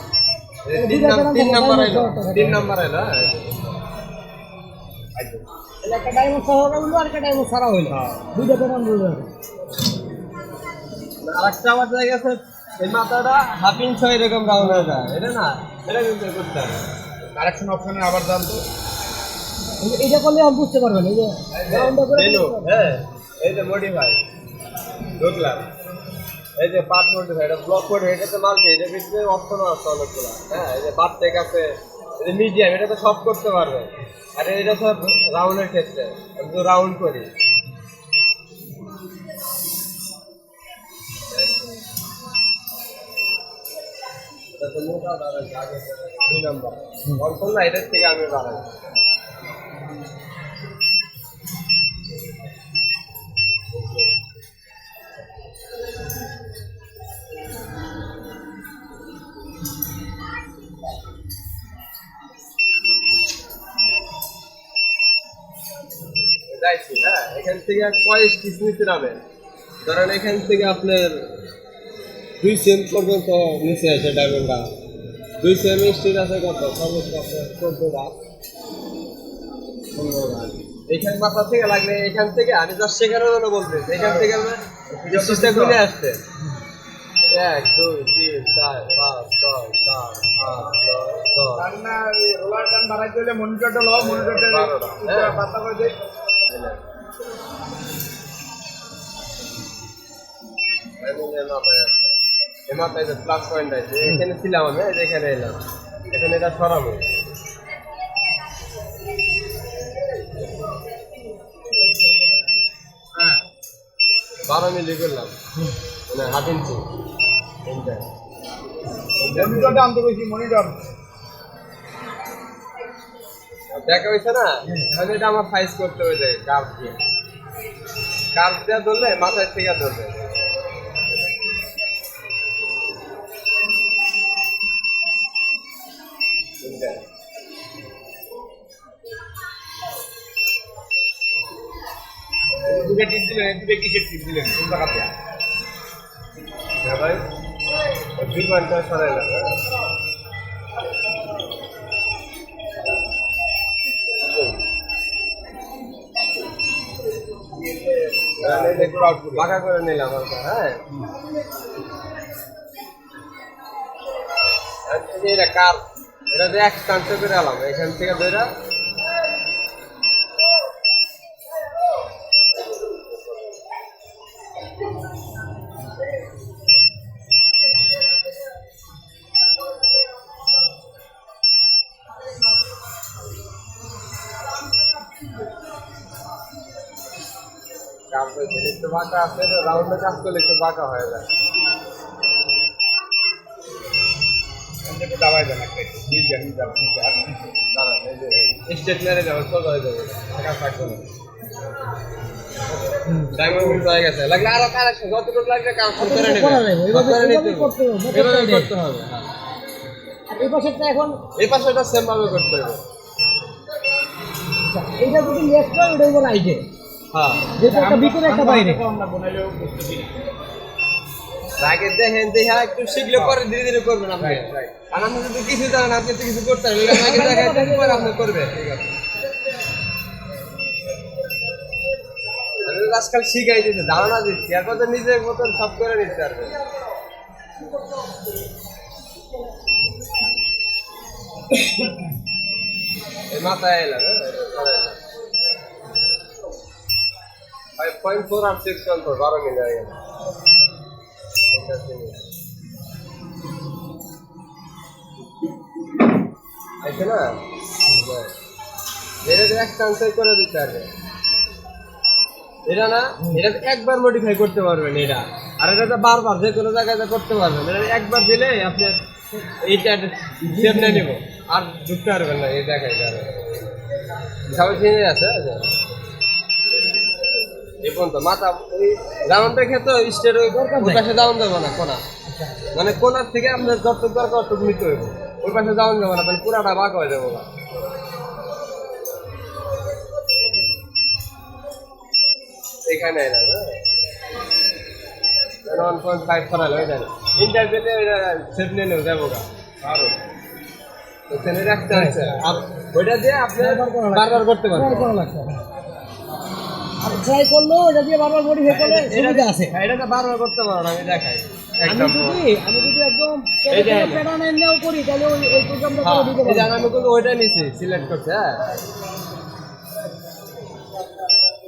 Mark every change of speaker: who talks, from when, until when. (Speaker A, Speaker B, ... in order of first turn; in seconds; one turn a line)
Speaker A: 0.7-3.8
Speaker B: 0.7-2.7
Speaker C: 5.2-5.4
Speaker B: 5.8-9.3
Speaker A: 7.9-8.3
Speaker A: 11.2-16.9
Speaker C: 17.4-18.6
Speaker B: 19.8-22.7
Speaker A: 21.5-24.2
Speaker A: 25.2-25.7
Speaker A: 26.6-37.3
Speaker A: 41.3-41.8
Speaker A: 44.5-48.8
Speaker A: 53.7-54.1
Speaker A: 66.5-69.2
Speaker A: 69.8-71.4
Speaker A: 72.4-74.7
Speaker A: 75.4-78.2
Speaker A: 79.9-86.2
Speaker C: 83.9-84.3
Speaker C: 84.9-85.8
Speaker A: 87.3-91.7
Speaker C: 91.6-96.0
Speaker A: 94.0-95.4
Speaker A: 96.5-96.8
Speaker A: 101.0-102.0
Speaker A: 102.7-105.6
Speaker A: 106.1-107.1
Speaker A: 114.5-115.3
Speaker A: 116.1-116.8
Speaker A: 117.7-118.1
Speaker A: 119.2-119.9
Speaker C: 119.3-120.8
Speaker A: 123.7-127.0
Speaker A: 128.3-130.3
Speaker A: 136.6-137.0
Speaker C: 142.6-145.1
Speaker A: 146.8-147.2
Speaker A: 148.2-149.6
Speaker C: 157.5-159.5
Speaker A: 158.4-160.8
Speaker A: 164.9-168.5
Speaker A: 172.6-173.1
Speaker A: 188.1-191.3
Speaker C: 194.9-197.6
Speaker A: 197.7-201.1
Speaker A: 203.3-209.3
Speaker C: 203.4-203.8
Speaker B: 206.0-208.7
Speaker B: 210.3-211.2
Speaker A: 211.3-212.8
Speaker B: 214.7-216.6
Speaker A: 217.1-217.5
Speaker B: 217.6-218.8
Speaker C: 217.6-220.2
Speaker A: 221.6-228.9
Speaker C: 224.2-224.6
Speaker B: 226.9-228.2
Speaker A: 232.6-236.6
Speaker A: 243.3-245.0
Speaker A: 247.8-250.0
Speaker A: 251.5-252.2
Speaker A: 256.8-257.4
Speaker A: 257.9-258.3
Speaker A: 259.2-260.9
Speaker A: 262.7-269.0
Speaker A: 269.6-273.5
Speaker B: 270.5-271.1
Speaker A: 274.5-275.7
Speaker A: 277.8-282.0
Speaker B: 280.5-281.0
Speaker B: 282.3-282.6
Speaker A: 282.7-287.5
Speaker A: 292.9-293.8
Speaker A: 295.6-299.5
Speaker C: 299.8-300.1
Speaker A: 301.3-305.1
Speaker B: 301.9-302.3
Speaker B: 303.6-305.6
Speaker B: 307.0-309.7
Speaker A: 308.7-312.4
Speaker B: 311.9-316.9
Speaker A: 313.7-314.3
Speaker A: 316.0-318.8